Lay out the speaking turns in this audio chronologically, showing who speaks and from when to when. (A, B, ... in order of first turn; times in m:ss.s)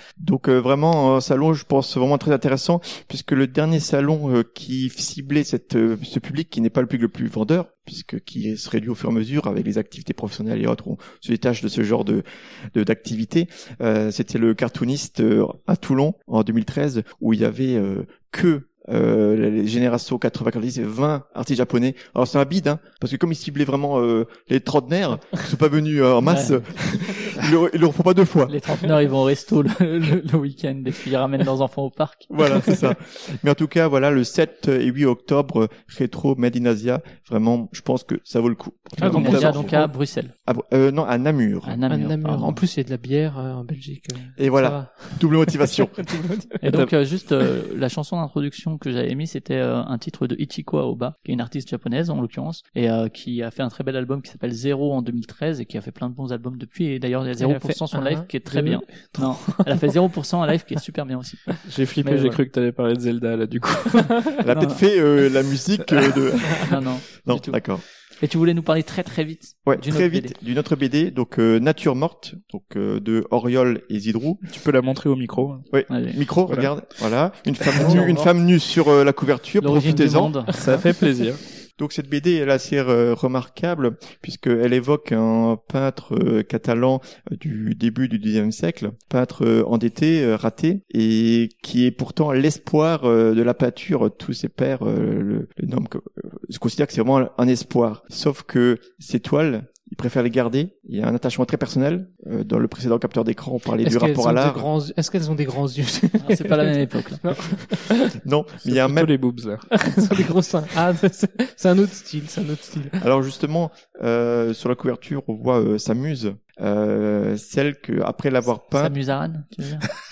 0:00.2-0:28.6 A
0:26.3-0:26.8 B
0:28.5-0:32.7 B
0:32.3-0:39.9 A
0:39.0-0:39.7 C
0:39.0-0:40.3 B
0:39.0-0:39.8 D
0:40.4-0:42.6 A
0:41.6-0:42.6 B
0:41.9-0:46.5 D
0:44.4-0:46.1 A
0:46.6-1:02.4 B
0:57.4-0:59.8 D
1:01.7-1:04.3 C
1:04.4-1:07.8 A
1:04.5-1:04.8 B
1:06.7-1:10.4 B
1:09.6-1:14.4 A
1:14.4-1:15.8 C
1:15.7-1:20.6 A
1:15.9-1:16.2 B
1:16.5-1:16.8 C
1:17.8-1:18.1 D
1:17.8-1:18.3 B
1:19.6-1:20.5 B
1:19.8-1:21.0 D
1:20.6-1:21.4 C
1:21.8-1:44.7 A
1:43.8-1:48.2 D
1:46.2-1:47.2 B
1:48.2-1:49.2 A
1:48.6-1:49.7 C
1:49.8-1:53.0 D
1:53.0-1:59.0 A
1:58.7-1:59.8 B